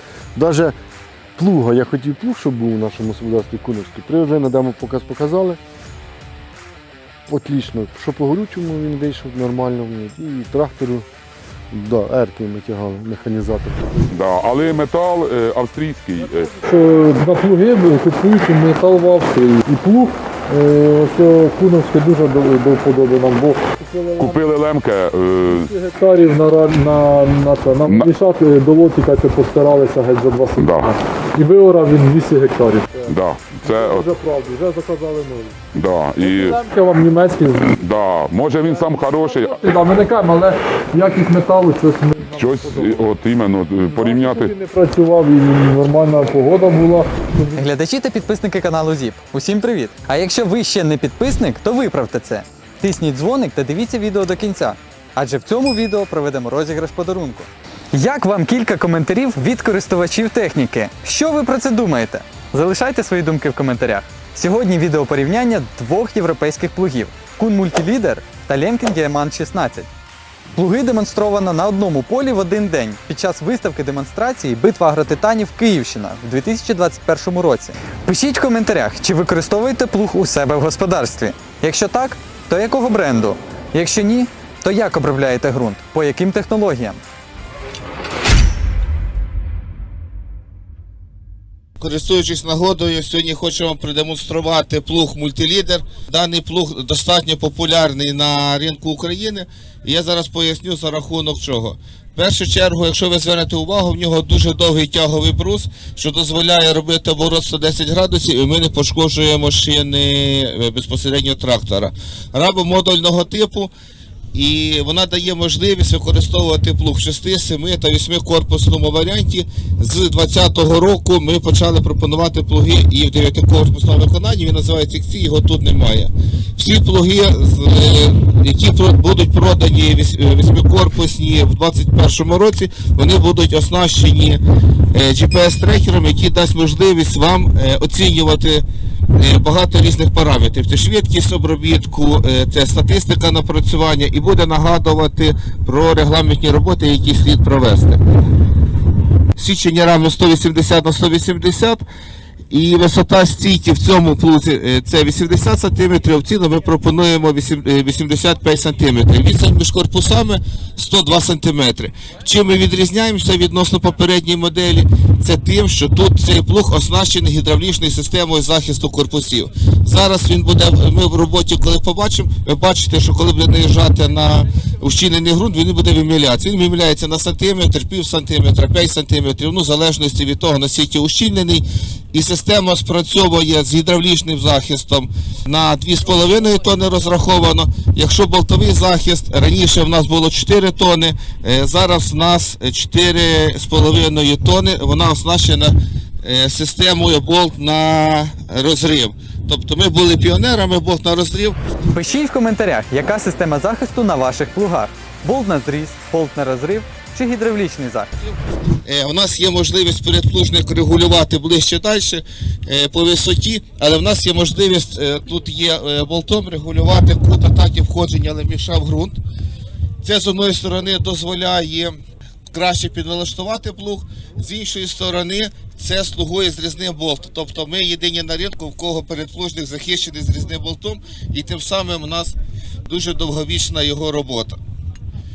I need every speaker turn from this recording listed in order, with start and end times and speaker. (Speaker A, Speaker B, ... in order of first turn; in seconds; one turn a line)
Speaker A: 0.3-0.7
Speaker A: 1.4-5.6
Speaker A: 7.3-11.1
Speaker A: 11.7-14.1
Speaker B: 14.1-16.5
Speaker C: 16.1-24.4
Speaker B: 24.2-25.7
Speaker C: 25.4-35.6
Speaker B: 27.9-28.1
Speaker B: 30.6-30.9
Speaker B: 33.1-34.1
Speaker B: 35.7-36.6
Speaker C: 36.2-37.8
Speaker B: 37.6-39.7
Speaker C: 38.7-43.1
Speaker B: 42.3-44.5
Speaker C: 43.9-47.6
Speaker D: 47.5-69.9
Speaker D: 70.5-87.0
Speaker E: 91.8-113.7
Speaker E: 114.3-134.4
Speaker E: 134.9-138.6
Speaker E: 139.2-148.0
Speaker E: 149.4-151.8
Speaker E: 152.5-201.6
Speaker D: 201.9-208.1
Speaker E: 208.8-219.2
Speaker E: 220.0-221.9
Speaker E: 222.5-234.6